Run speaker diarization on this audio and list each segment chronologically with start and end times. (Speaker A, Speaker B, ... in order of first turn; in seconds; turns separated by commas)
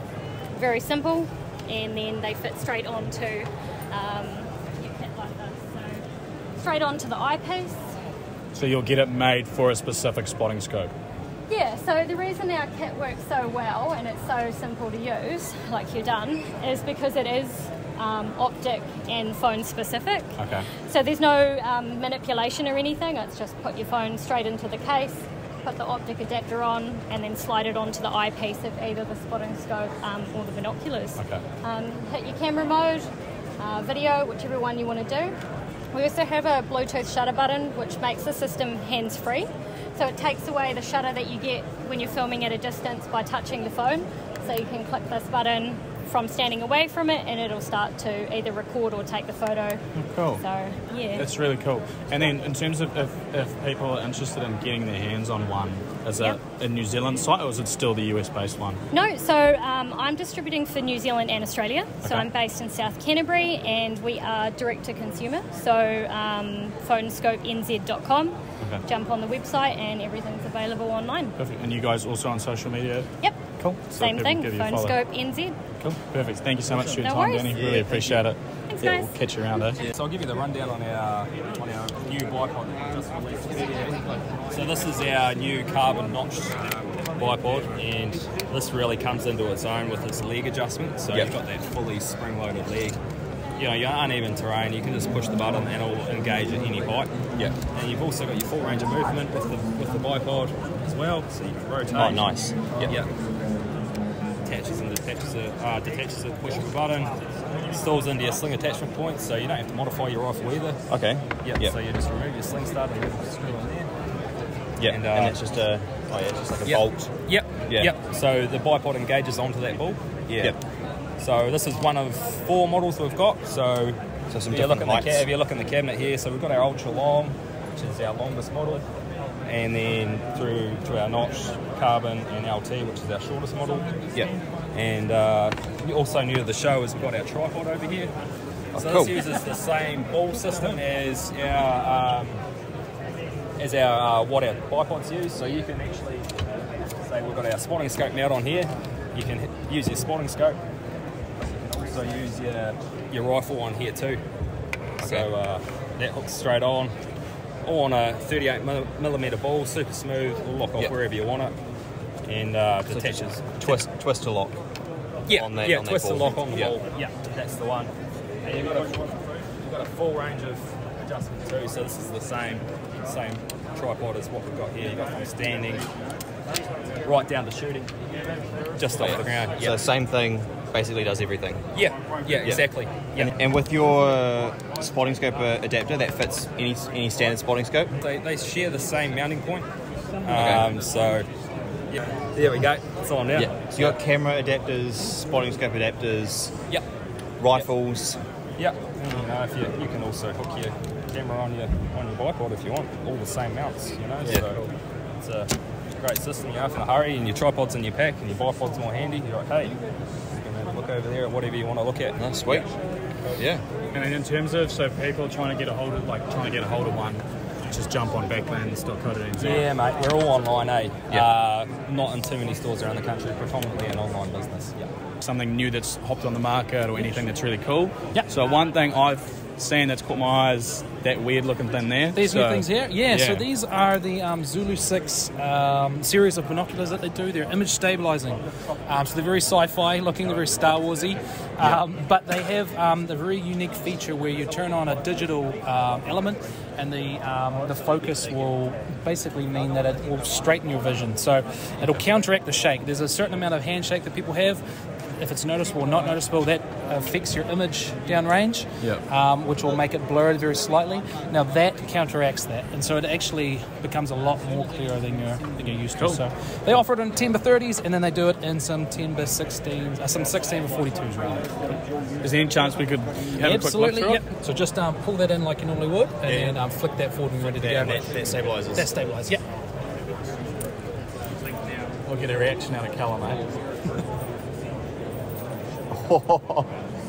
Speaker A: 0.5-6.0, Speaker A: 6.6-7.8, Speaker B: 8.6-10.9, Speaker A: 11.5-33.1, Speaker B: 20.4-20.7, Speaker A: 33.6-35.4, Speaker A: 35.9-51.3, Speaker B: 50.0-50.4, Speaker B: 51.2-58.8, Speaker A: 58.9-71.4, Speaker B: 71.4-75.0, Speaker A: 73.9-75.6, Speaker B: 75.8-79.8, Speaker A: 76.9-77.6, Speaker C: 77.5-78.2, Speaker A: 78.7-79.2, Speaker D: 79.8-93.0, Speaker D: 93.6-97.1, Speaker D: 97.7-102.3, Speaker C: 102.0-102.9, Speaker D: 102.8-103.1, Speaker D: 104.5-110.8, Speaker C: 110.9-111.7, Speaker D: 111.4-113.9, Speaker C: 114.8-117.1, Speaker D: 114.9-115.4, Speaker D: 116.6-120.5, Speaker C: 120.3-120.6, Speaker D: 121.2-128.8, Speaker C: 124.3-125.3, Speaker D: 129.4-133.9, Speaker D: 134.7-138.1, Speaker C: 138.8-139.1, Speaker D: 138.8-142.4, Speaker D: 143.6-146.3, Speaker D: 147.0-150.6, Speaker D: 151.4-154.2, Speaker D: 155.0-156.9, Speaker C: 155.0-155.3, Speaker D: 157.6-161.6, Speaker D: 162.2-163.8, Speaker C: 162.9-164.6, Speaker D: 165.3-167.9, Speaker C: 165.3-166.8, Speaker D: 168.4-175.9, Speaker D: 177.0-177.9, Speaker D: 178.8-179.8, Speaker C: 179.0-181.6, Speaker D: 181.7-183.3, Speaker C: 183.2-187.9, Speaker D: 188.0-189.7, Speaker D: 190.2-191.3, Speaker C: 190.3-190.7, Speaker D: 191.9-193.9, Speaker C: 193.3-196.6, Speaker C: 197.4-198.2, Speaker D: 198.6-204.7, Speaker C: 204.2-204.6, Speaker D: 205.2-209.8, Speaker D: 210.3-213.4, Speaker C: 212.2-212.7, Speaker C: 213.4-213.6, Speaker B: 213.9-219.7, Speaker D: 219.4-224.7, Speaker B: 225.2-232.7, Speaker E: 232.1-271.5, Speaker C: 233.1-233.4, Speaker B: 272.2-274.2, Speaker E: 273.3-279.4, Speaker C: 276.2-276.6, Speaker C: 277.6-278.9, Speaker B: 282.1-283.6, Speaker C: 285.9-286.7